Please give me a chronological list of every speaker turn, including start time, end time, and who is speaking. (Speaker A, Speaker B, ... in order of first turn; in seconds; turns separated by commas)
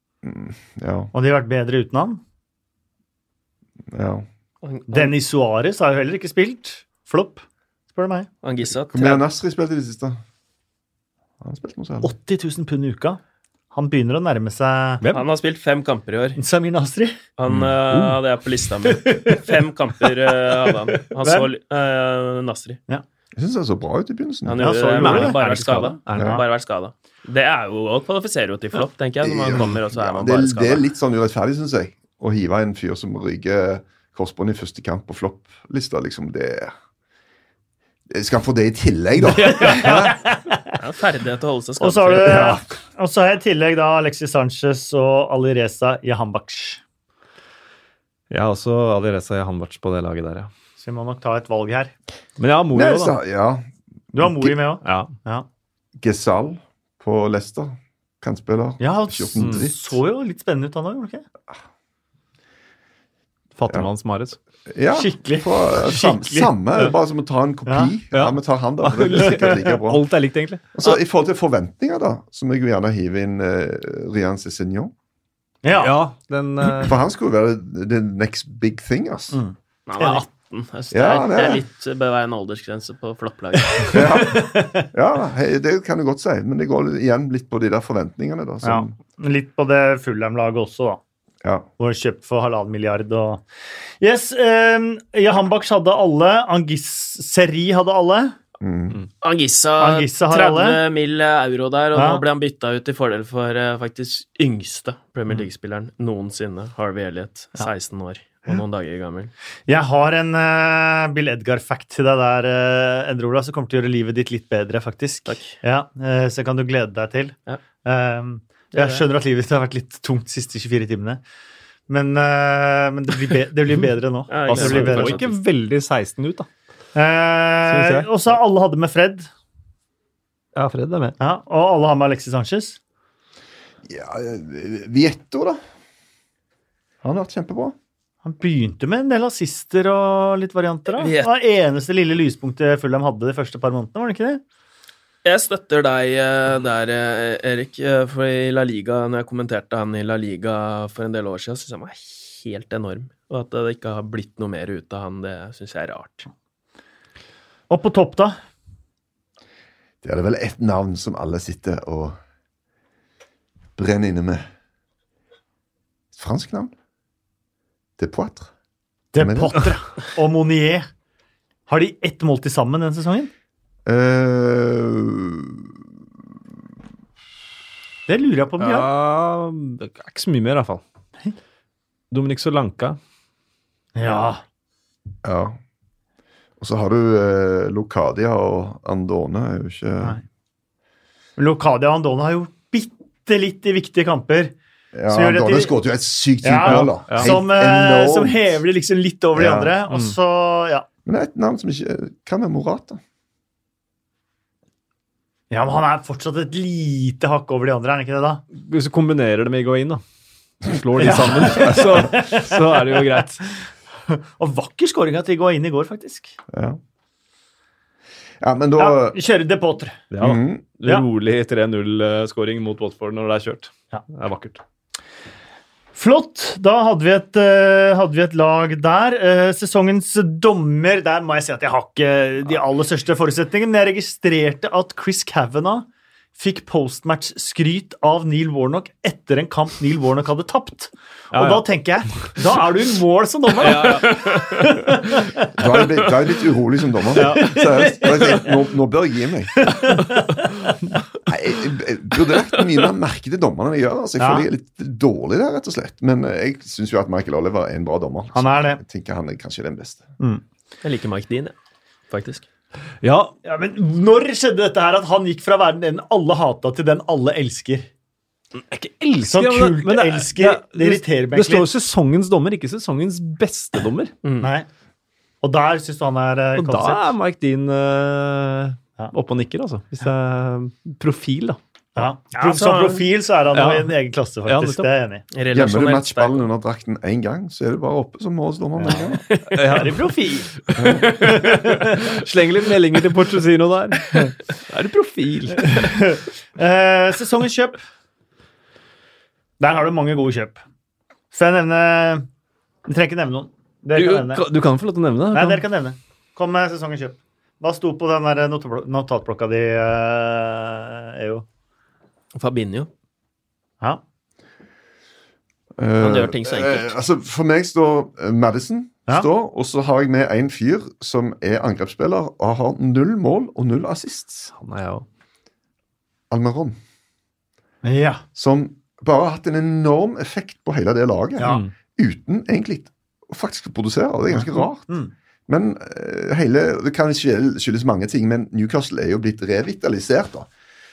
Speaker A: 0.2-1.1, Speaker B: 1.1-2.2, Speaker A: 3.9-4.2, Speaker C: 4.6-5.1, Speaker B: 4.9-8.3, Speaker C: 8.4-9.2, Speaker A: 8.9-10.2, Speaker A: 11.4-12.1, Speaker B: 12.0-13.2, Speaker B: 13.7-15.0, Speaker C: 15.1-16.4, Speaker B: 16.4-17.1, Speaker C: 17.4-22.8, Speaker A: 17.5-18.2, Speaker B: 18.9-19.5, Speaker B: 21.2-21.5, Speaker A: 23.4-24.6, Speaker C: 24.4-30.9, Speaker B: 24.6-25.4, Speaker D: 25.0-26.4, Speaker A: 29.2-36.7, Speaker A: 38.1-40.1, Speaker D: 39.3-40.1, Speaker B: 39.5-40.8, Speaker C: 40.7-42.5, Speaker B: 41.8-46.8, Speaker A: 42.2-42.6, Speaker D: 48.3-50.5, Speaker B: 50.8-51.9, Speaker D: 52.4-53.1, Speaker A: 52.7-53.7, Speaker B: 54.1-55.5, Speaker A: 54.2-54.5, Speaker D: 54.8-55.1, Speaker A: 56.0-60.0, Speaker B: 58.8-61.2, Speaker D: 63.5-64.4, Speaker A: 64.7-70.0, Speaker B: 64.9-66.5, Speaker B: 67.7-67.9, Speaker D: 68.1-70.6, Speaker A: 70.7-74.9, Speaker B: 75.6-76.0, Speaker D: 75.7-77.0, Speaker A: 76.7-79.4, Speaker B: 79.3-80.2, Speaker C: 79.9-84.0, Speaker A: 80.9-81.6, Speaker B: 83.7-84.9, Speaker A: 83.9-88.9, Speaker B: 88.6-91.0, Speaker B: 91.8-93.4, Speaker B: 94.0-98.3, Speaker A: 98.6-99.0, Speaker C: 99.2-109.3, Speaker B: 99.8-100.8, Speaker B: 101.9-102.2, Speaker B: 109.7-121.2, Speaker C: 115.3-115.5, Speaker C: 118.7-119.0, Speaker B: 121.9-125.2, Speaker C: 124.3-125.3, Speaker D: 124.5-126.5, Speaker B: 126.9-129.3, Speaker D: 127.7-128.1, Speaker D: 130.5-131.2, Speaker B: 131.2-132.8, Speaker A: 133.8-135.6, Speaker A: 137.0-137.7, Speaker B: 138.2-144.4, Speaker C: 140.9-141.3, Speaker C: 145.2-156.3, Speaker B: 157.7-158.4, Speaker A: 160.0-162.2, Speaker A: 163.8-164.4, Speaker A: 166.1-166.7, Speaker A: 168.0-168.5, Speaker B: 169.1-170.9, Speaker A: 169.2-169.7, Speaker B: 171.7-173.3, Speaker A: 173.8-175.7, Speaker B: 178.1-178.9, Speaker D: 178.6-180.8, Speaker D: 182.1-183.0, Speaker B: 183.9-184.4, Speaker A: 185.2-185.6, Speaker A: 186.6-190.2, Speaker B: 191.4-194.5, Speaker A: 194.9-198.6, Speaker B: 195.1-195.7, Speaker B: 196.4-200.8, Speaker D: 196.6-197.3, Speaker A: 199.3-199.7, Speaker D: 199.9-200.2, Speaker A: 201.0-203.0, Speaker B: 205.5-208.4, Speaker D: 208.5-210.0, Speaker D: 210.6-213.4, Speaker B: 211.0-213.2, Speaker B: 214.1-216.3, Speaker A: 216.5-216.8, Speaker A: 218.4-219.2, Speaker B: 218.8-220.0, Speaker D: 220.1-224.6, Speaker A: 220.2-220.6, Speaker B: 225.9-245.5, Speaker D: 241.3-241.7, Speaker D: 243.6-244.4, Speaker C: 243.9-244.6, Speaker A: 245.5-249.9, Speaker D: 247.1-247.6, Speaker B: 247.1-248.5, Speaker B: 249.6-250.8, Speaker A: 251.3-260.1, Speaker B: 254.2-254.5, Speaker B: 258.3-258.8, Speaker C: 260.8-261.5, Speaker C: 262.1-262.4, Speaker D: 263.0-263.3, Speaker B: 263.4-267.9, Speaker D: 268.7-274.1, Speaker B: 269.2-271.7, Speaker C: 274.2-274.5, Speaker B: 274.4-274.7, Speaker B: 275.4-277.1, Speaker D: 276.6-281.6, Speaker B: 281.9-285.2, Speaker C: 282.4-283.1, Speaker D: 283.5-284.9, Speaker C: 285.3-286.5, Speaker A: 285.5-289.2, Speaker B: 288.8-290.5, Speaker C: 289.3-289.8, Speaker D: 289.5-290.1, Speaker D: 290.6-296.0, Speaker A: 290.7-291.1, Speaker B: 291.1-292.1, Speaker B: 295.6-297.8, Speaker B: 299.6-300.6, Speaker B: 301.3-302.2, Speaker B: 302.8-304.4, Speaker D: 303.9-305.6, Speaker B: 305.3-311.4, Speaker C: 312.3-312.9, Speaker A: 315.8-324.5, Speaker C: 316.0-316.9, Speaker D: 324.5-325.1, Speaker A: 326.3-326.8, Speaker B: 327.8-328.2, Speaker A: 328.3-334.9, Speaker B: 331.4-331.6, Speaker D: 331.4-331.7, Speaker B: 334.3-335.1, Speaker A: 335.5-340.5